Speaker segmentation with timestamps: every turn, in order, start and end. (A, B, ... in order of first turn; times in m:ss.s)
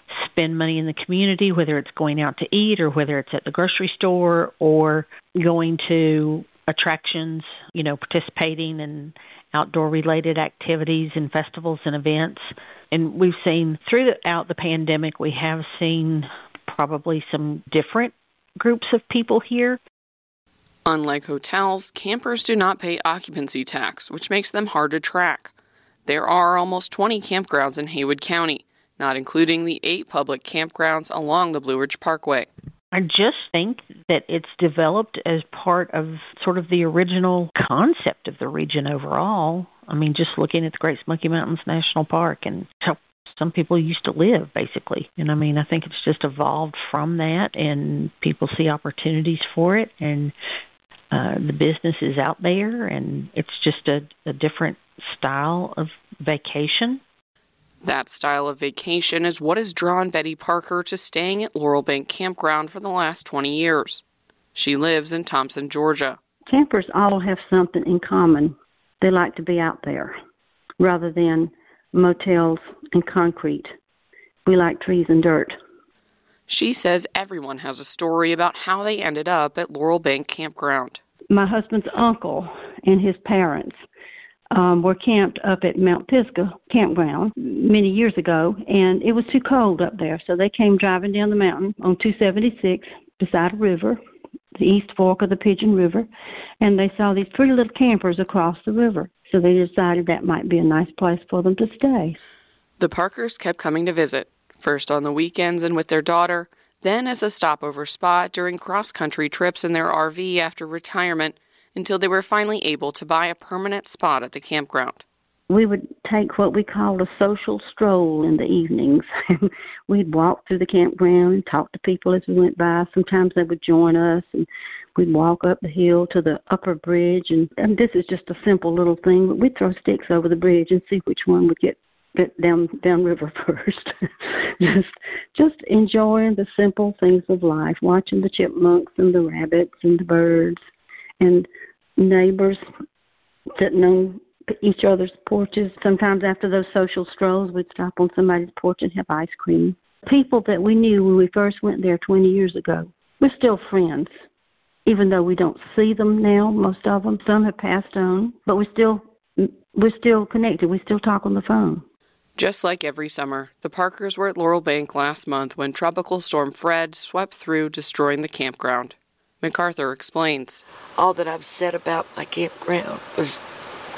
0:00.1-0:19.8 A
0:20.9-0:25.5 B
0:26.1-0:32.5 B
0:32.9-0:50.3 A
0:51.1-0:57.0 A
0:57.8-1:04.0 B
1:04.6-1:06.2 B
1:06.5-1:10.1 C
1:10.8-1:13.7 C
1:14.5-1:15.6 C
1:16.5-1:21.0 B
1:21.3-1:23.8 C
1:24.5-1:34.0 C
1:34.6-1:36.1 C
1:36.6-1:42.2 C
1:42.8-1:55.0 B
1:55.5-2:13.9 C
2:14.6-2:20.6 C
2:21.2-2:22.6 C
2:23.6-2:34.1 C
2:34.9-2:41.8 C
2:42.4-2:50.6 B
2:51.0-2:53.4 D